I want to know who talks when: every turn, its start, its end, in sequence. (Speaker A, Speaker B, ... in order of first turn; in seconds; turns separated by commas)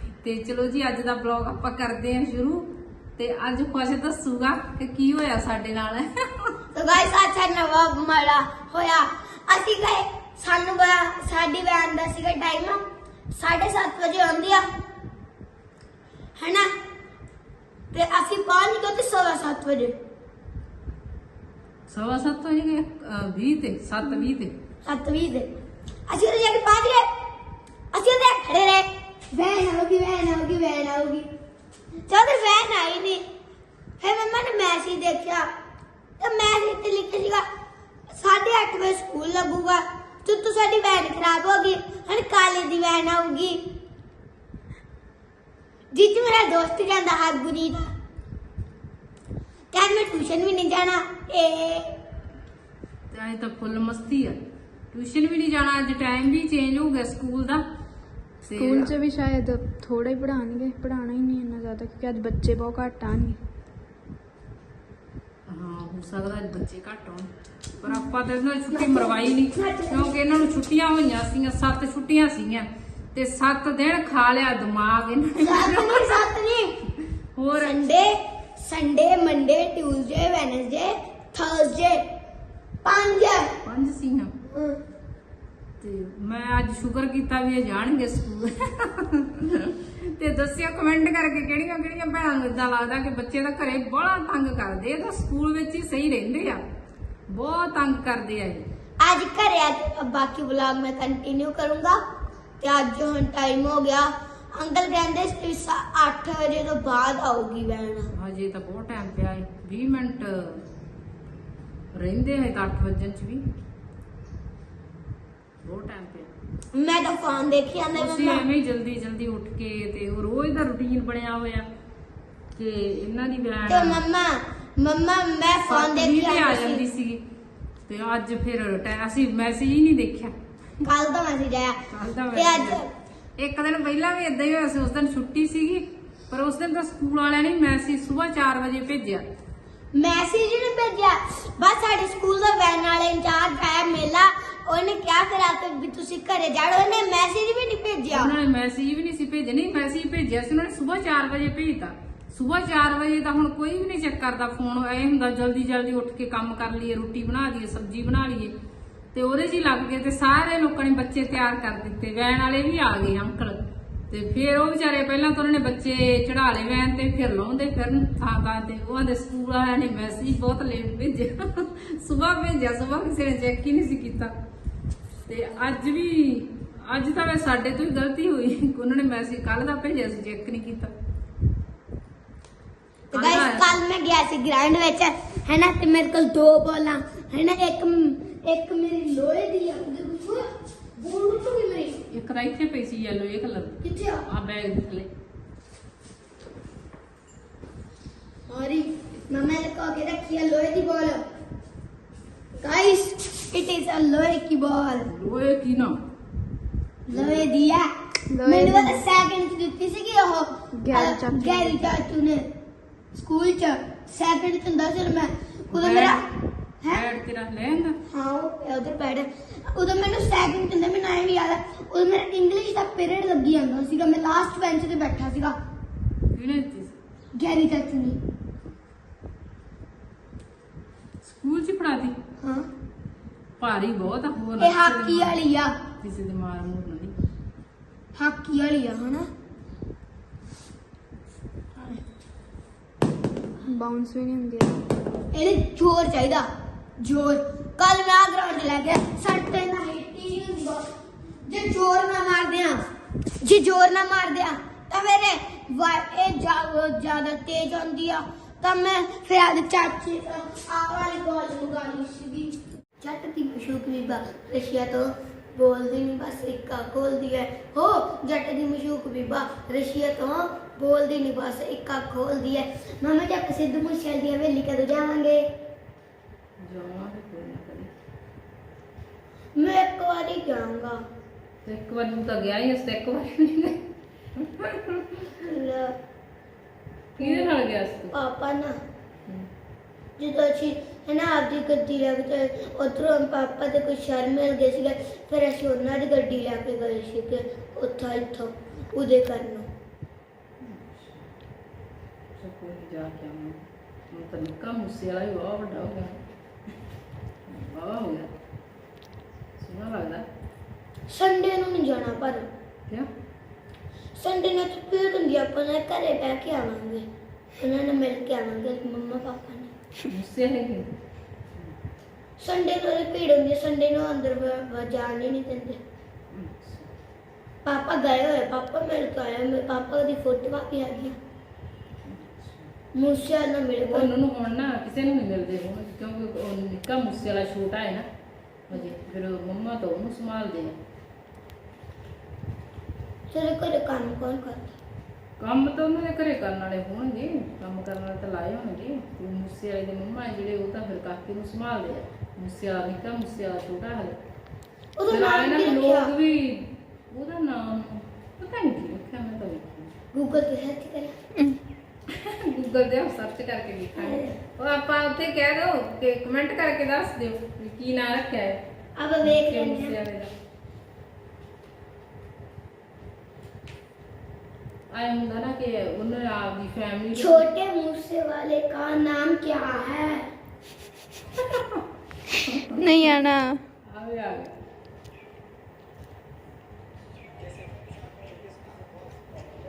Speaker A: 0.2-6.5, Speaker B: 6.7-14.7, Speaker B: 16.4-16.7, Speaker B: 17.9-19.9, Speaker A: 21.9-24.5, Speaker B: 24.8-25.5, Speaker B: 26.1-27.1, Speaker B: 27.9-31.3, Speaker B: 32.1-33.2, Speaker B: 34.0-35.5, Speaker B: 36.2-37.5, Speaker B: 38.1-43.6, Speaker B: 45.9-47.9, Speaker B: 49.7-51.9, Speaker A: 53.1-54.4, Speaker A: 54.9-57.6, Speaker A: 58.4-58.9, Speaker C: 58.6-63.4, Speaker A: 65.5-76.2, Speaker B: 68.7-70.3, Speaker B: 75.4-76.8, Speaker A: 77.3-77.8, Speaker B: 77.5-82.0, Speaker B: 82.8-83.5, Speaker A: 83.6-84.3, Speaker B: 84.5-84.8, Speaker A: 85.8-96.6, Speaker A: 97.3-98.7, Speaker B: 99.0-102.0, Speaker B: 102.6-108.1, Speaker A: 108.1-110.6, Speaker A: 111.9-113.4, Speaker A: 115.6-116.3, Speaker B: 116.7-118.5, Speaker A: 118.0-121.7, Speaker A: 122.5-124.0, Speaker B: 123.7-126.8, Speaker A: 125.7-127.2, Speaker A: 127.9-130.3, Speaker B: 130.8-131.8, Speaker A: 131.9-132.8, Speaker B: 132.3-132.9, Speaker A: 133.4-139.2, Speaker B: 139.9-148.3, Speaker A: 148.1-158.5, Speaker A: 159.1-174.3, Speaker A: 175.3-180.9, Speaker B: 183.1-190.4, Speaker A: 183.1-183.8, Speaker B: 191.0-192.0, Speaker A: 192.1-195.1, Speaker B: 193.8-194.2, Speaker B: 198.5-201.2, Speaker B: 202.6-205.1, Speaker A: 205.1-206.0, Speaker B: 207.1-207.9, Speaker A: 207.1-207.4, Speaker C: 208.3-209.0, Speaker B: 208.4-212.4, Speaker C: 210.7-211.9, Speaker B: 213.1-216.2, Speaker A: 215.7-216.2, Speaker A: 216.8-218.0, Speaker B: 218.1-225.6, Speaker A: 226.3-227.0, Speaker B: 227.3-228.2, Speaker A: 231.2-232.2, Speaker B: 232.4-232.7, Speaker A: 233.6-235.4, Speaker B: 234.6-235.8, Speaker A: 236.0-237.2, Speaker B: 238.2-239.3, Speaker C: 243.7-244.8, Speaker B: 245.3-246.5, Speaker B: 247.0-250.8, Speaker B: 251.5-252.8, Speaker B: 253.4-275.4, Speaker A: 276.6-277.9, Speaker B: 279.6-281.0, Speaker A: 281.6-283.8, Speaker A: 284.4-285.3, Speaker B: 285.4-286.0, Speaker A: 287.2-288.1, Speaker B: 287.2-287.5, Speaker B: 288.1-288.8, Speaker B: 290.2-299.7, Speaker A: 300.6-301.3, Speaker A: 302.4-306.2, Speaker A: 307.5-308.4, Speaker A: 309.6-310.2, Speaker B: 311.1-312.5, Speaker B: 314.2-317.1, Speaker B: 317.6-319.7, Speaker A: 320.1-320.9, Speaker B: 322.4-325.8, Speaker A: 326.3-326.9, Speaker B: 327.6-331.2, Speaker A: 332.1-332.7, Speaker B: 332.9-334.1, Speaker A: 333.8-338.1, Speaker A: 338.7-340.8, Speaker B: 343.3-344.8, Speaker A: 345.4-354.2, Speaker B: 355.0-356.1, Speaker A: 355.1-359.9, Speaker B: 360.1-361.2, Speaker A: 362.1-368.6, Speaker B: 364.0-364.4, Speaker B: 369.0-370.0, Speaker A: 369.2-370.3, Speaker A: 374.9-377.4, Speaker B: 377.1-380.3, Speaker A: 381.4-381.8, Speaker A: 382.4-383.1, Speaker C: 382.7-383.6, Speaker A: 383.9-384.5